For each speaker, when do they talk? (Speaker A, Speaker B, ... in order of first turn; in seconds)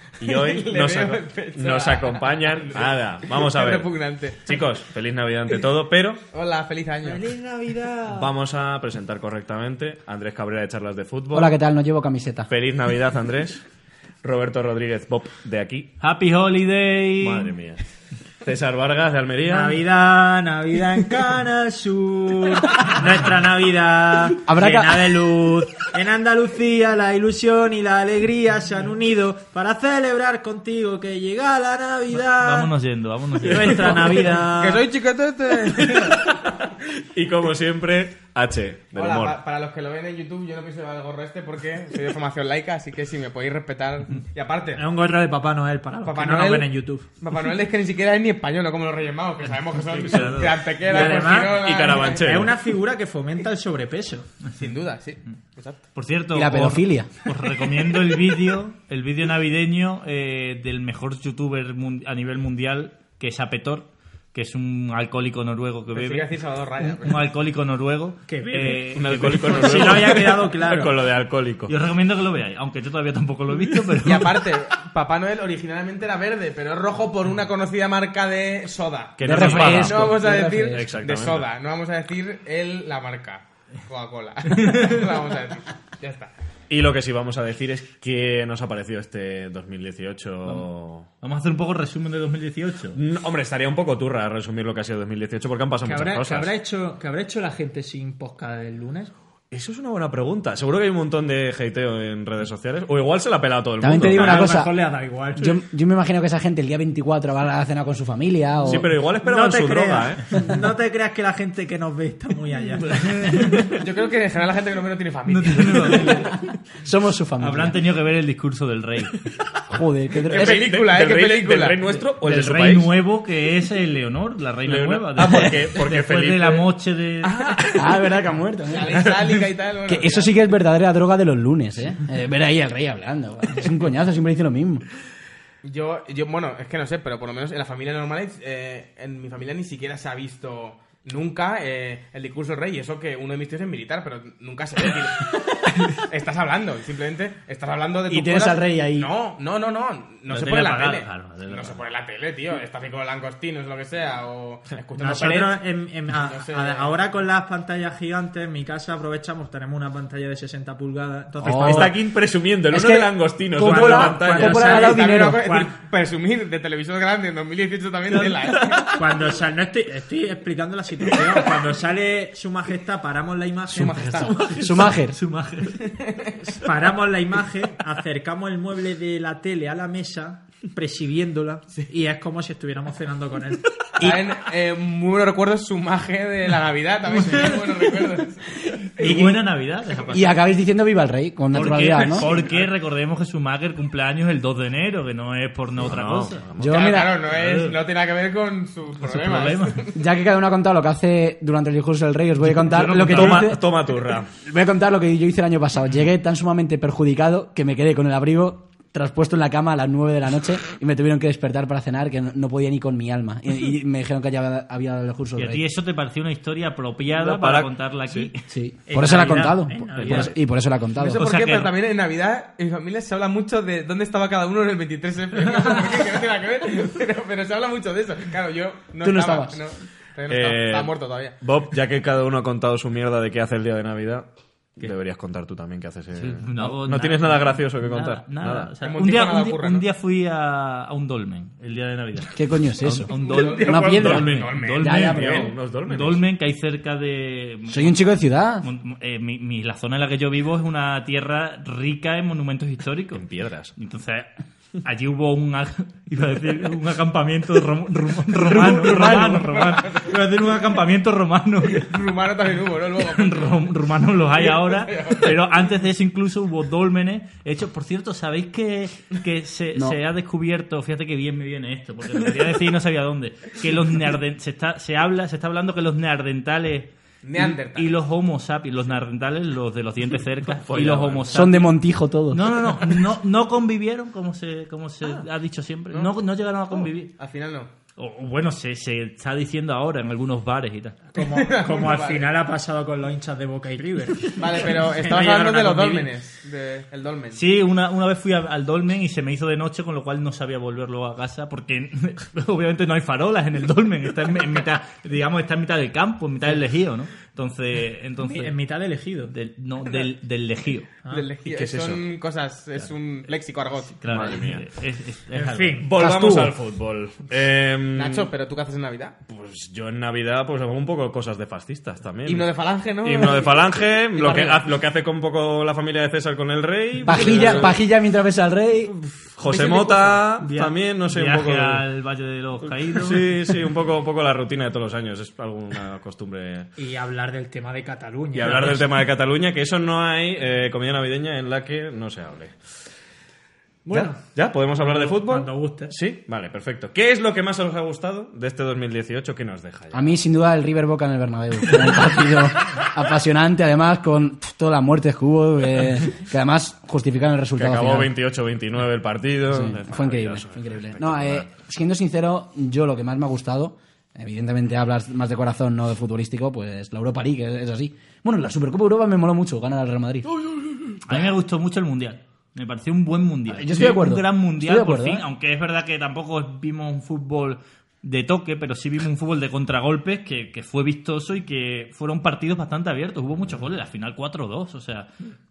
Speaker A: 0.2-3.9, 4.4-6.2, 8.1-11.5, 12.5-13.6, 14.2-15.9, 17.2-17.8, 18.4-19.8, 33.5-34.3, 35.8-39.4, 51.0-52.5, 68.9-71.7, 79.2-81.5, 86.7-91.1, 92.9-96.5, 99.5-104.5, 108.6-110.3, 120.3-122.9, 124.7-126.7, 127.2-127.9, 161.4-164.7, 168.5-169.1, 195.8-196.7, 202.7-204.3, 217.1-218.3, 230.3-238.7, 243.9-246.2, 253.1-253.7, 280.6-281.5, 311.4-312.0, 314.1-314.6, 315.8-318.3, 319.2-322.5, 323.0-327.8, 329.4-331.8, 332.9-336.7, 338.3-342.6, 343.9-350.2, 357.6-361.5
Speaker B: 0.2-4.6, 6.3-7.3, 34.6-36.1, 38.9-44.8, 46.0-52.4, 54.5-55.8, 65.9-67.3, 74.0-86.3, 113.7-116.2, 120.3-122.0, 128.7-130.3, 135.6-156.9, 164.4-169.0, 173.7-174.5, 175.8-176.4, 184.0-188.6, 196.6-200.0, 221.0-231.4, 238.8-239.8, 243.1-245.0, 259.2-260.1, 261.7-263.7, 264.3-265.4, 277.2-278.0, 286.7-287.7, 291.2-292.3, 294.3-297.4, 311.1-313.9, 317.9-319.2, 322.2-324.5
Speaker C: 7.0-8.3, 19.4-32.7, 33.4-34.8, 44.7-47.0, 50.8-54.3, 68.3-71.0, 95.8-99.1, 104.1-105.6, 109.1-113.7, 155.0-162.0, 163.6-165.7, 168.9-174.5, 176.4-184.0, 218.9-220.3, 291.1-296.1, 308.2-309.3, 315.3-315.9, 329.1-330.7, 336.8-338.9, 343.8-345.9
Speaker D: 11.3-12.5, 24.4-25.3, 56.3-57.1, 79.2-80.8, 103.8-104.7, 105.4-108.9, 116.8-117.8, 119.7-120.7, 127.7-129.1, 129.8-134.8, 148.1-149.1, 161.4-161.9, 162.7-165.4, 174.4-175.2, 188.9-189.4, 190.1-192.3, 196.6-197.2, 199.9-203.8, 204.4-215.6, 218.5-221.2, 229.0-229.7, 242.3-245.5, 247.7-248.7, 258.4-259.5, 281.3-282.9, 315.9-316.5, 324.2-324.6, 327.0-328.9, 349.9-358.1, 359.5-370.3, 373.5-375.2
Speaker E: 16.0-17.5, 32.1-34.1, 49.9-50.6, 55.9-66.2, 66.8-70.1, 71.7-74.4, 84.5-85.1, 91.2-93.0, 113.0-113.7, 115.3-116.4, 117.4-119.2, 122.2-127.7, 150.3-151.8, 173.7-175.9, 189.0-190.3, 191.5-196.4, 197.3-197.7, 199.0-199.8, 202.4-203.5, 215.4-218.4, 221.1-221.7, 236.2-248.0, 248.6-254.3, 254.8-262.0, 263.0-276.9, 277.7-281.7, 282.3-287.1, 287.9-291.0, 297.3-308.5, 309.3-310.9, 313.9-315.8, 331.1-333.2, 371.0-385.1